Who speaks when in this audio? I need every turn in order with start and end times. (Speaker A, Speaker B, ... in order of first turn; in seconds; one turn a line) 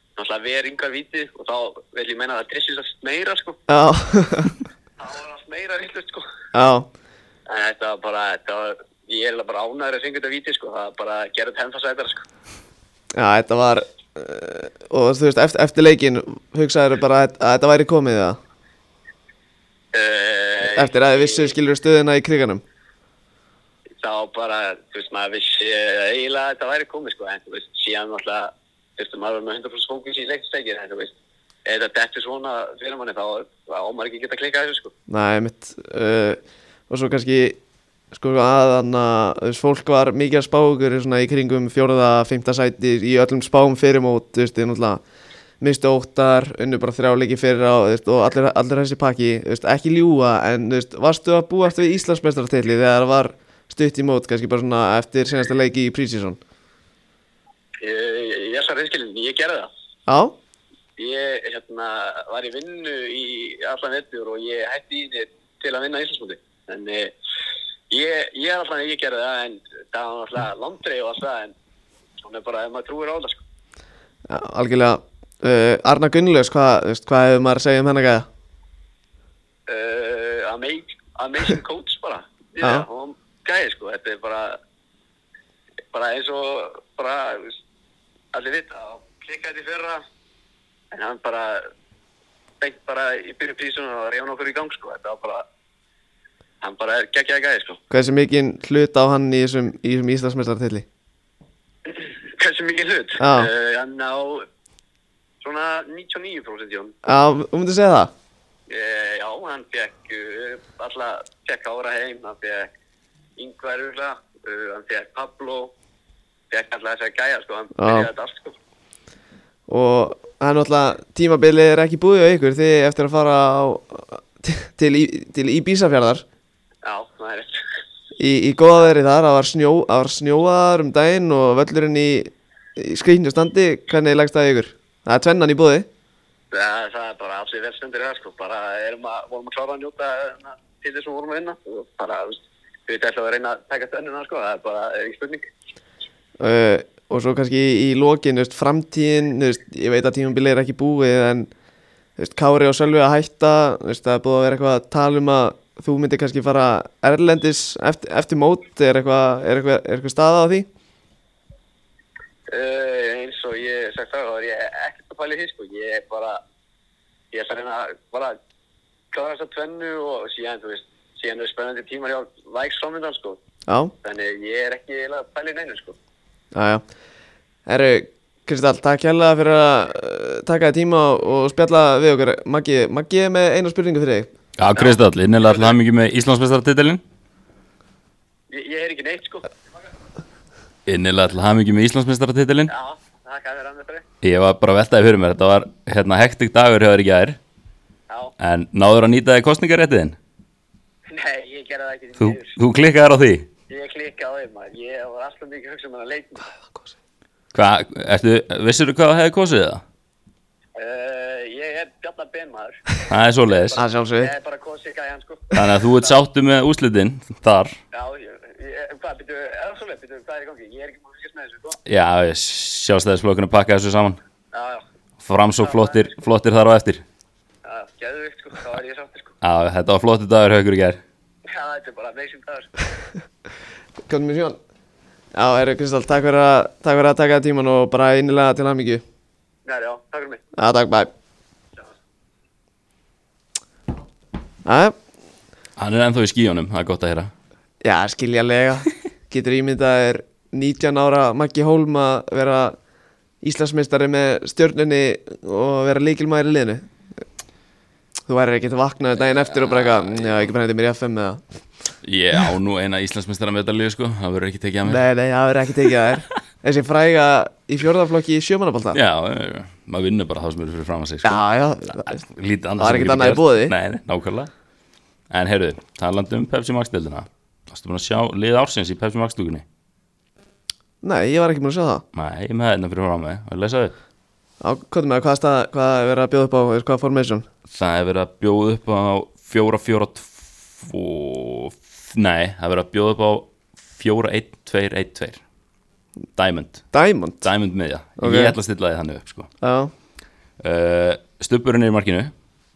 Speaker A: 0.2-3.6
Speaker B: 3.7-4.6
Speaker A: 5.0-6.3
Speaker B: 6.5-6.9
Speaker A: 7.5-12.2
Speaker B: 13.2-18.4
Speaker A: 19.9-21.5
Speaker B: 20.6-22.6
Speaker A: 24.0-31.1
Speaker A: 31.7-34.9
Speaker B: 35.1-37.6
Speaker B: 38.1-45.0
Speaker B: 45.6-56.4
Speaker A: 57.8-59.7
Speaker B: 60.1-60.4
Speaker A: 61.0-67.1
Speaker A: 67.9-71.5
Speaker A: 72.2-73.4
Speaker B: 74.3-78.3
Speaker A: 79.7-84.6
Speaker A: 85.9-87.6
Speaker A: 88.3-90.0
Speaker A: 90.9-91.7
Speaker A: 92.6-95.5
Speaker A: 96.6-97.8
Speaker B: 97.9-100.9
Speaker A: 101.9-104.5
Speaker B: 103.2-103.5
Speaker A: 105.4-107.0
Speaker B: 107.0-108.1
Speaker A: 108.7-112.7
Speaker A: 113.4-115.7
Speaker A: 116.5-118.5
Speaker B: 117.8-118.1
Speaker B: 119.7-126.2
Speaker A: 126.8-127.6
Speaker B: 128.2-135.9
Speaker A: 136.5-145.4
Speaker B: 146.4-151.5
Speaker B: 152.2-160.7
Speaker A: 162.5-166.4
Speaker A: 167.3-168.4
Speaker A: 169.1-173.4
Speaker B: 173.7-173.9
Speaker A: 174.0-176.0
Speaker B: 176.5-176.8
Speaker B: 177.7-184.3
Speaker C: 184.6-187.0
Speaker A: 184.8-185.8
Speaker A: 188.5-189.5
Speaker C: 190.9-192.7
Speaker A: 192.7-194.1
Speaker C: 194.2-197.4
Speaker A: 198.1-198.3
Speaker C: 198.4-200.2
Speaker A: 201.1-202.6
Speaker C: 202.2-203.5
Speaker A: 203.7-206.5
Speaker C: 207.5-209.8
Speaker A: 210.8-212.8
Speaker C: 213.1-213.8
Speaker A: 213.7-216.1
Speaker B: 213.8-214.3
Speaker C: 215.5-217.8
Speaker A: 217.9-221.8
Speaker C: 221.9-224.2
Speaker A: 224.5-224.8
Speaker C: 225.2-227.0
Speaker A: 225.6-226.2
Speaker A: 227.7-229.3
Speaker C: 229.4-231.0
Speaker A: 231.5-232.7
Speaker B: 234.1-234.6
Speaker B: 235.3-239.0
Speaker A: 239.7-240.4
Speaker B: 240.6-241.1
Speaker B: 244.7-244.9
Speaker C: 245.8-247.3
Speaker B: 247.8-252.8
Speaker B: 253.4-256.9
Speaker B: 258.3-261.4
Speaker C: 259.5-260.4
Speaker C: 262.0-265.1
Speaker B: 264.9-269.0
Speaker C: 268.9-271.4
Speaker B: 271.2-272.2
Speaker C: 271.9-274.5
Speaker B: 272.8-273.7
Speaker C: 275.3-279.6
Speaker B: 281.0-282.0
Speaker C: 282.1-283.9
Speaker B: 284.6-287.5
Speaker C: 287.7-295.4
Speaker C: 296.4-296.9
Speaker B: 296.9-297.5
Speaker C: 297.4-299.5
Speaker B: 298.2-298.6
Speaker B: 299.6-299.9
Speaker C: 300.6-302.3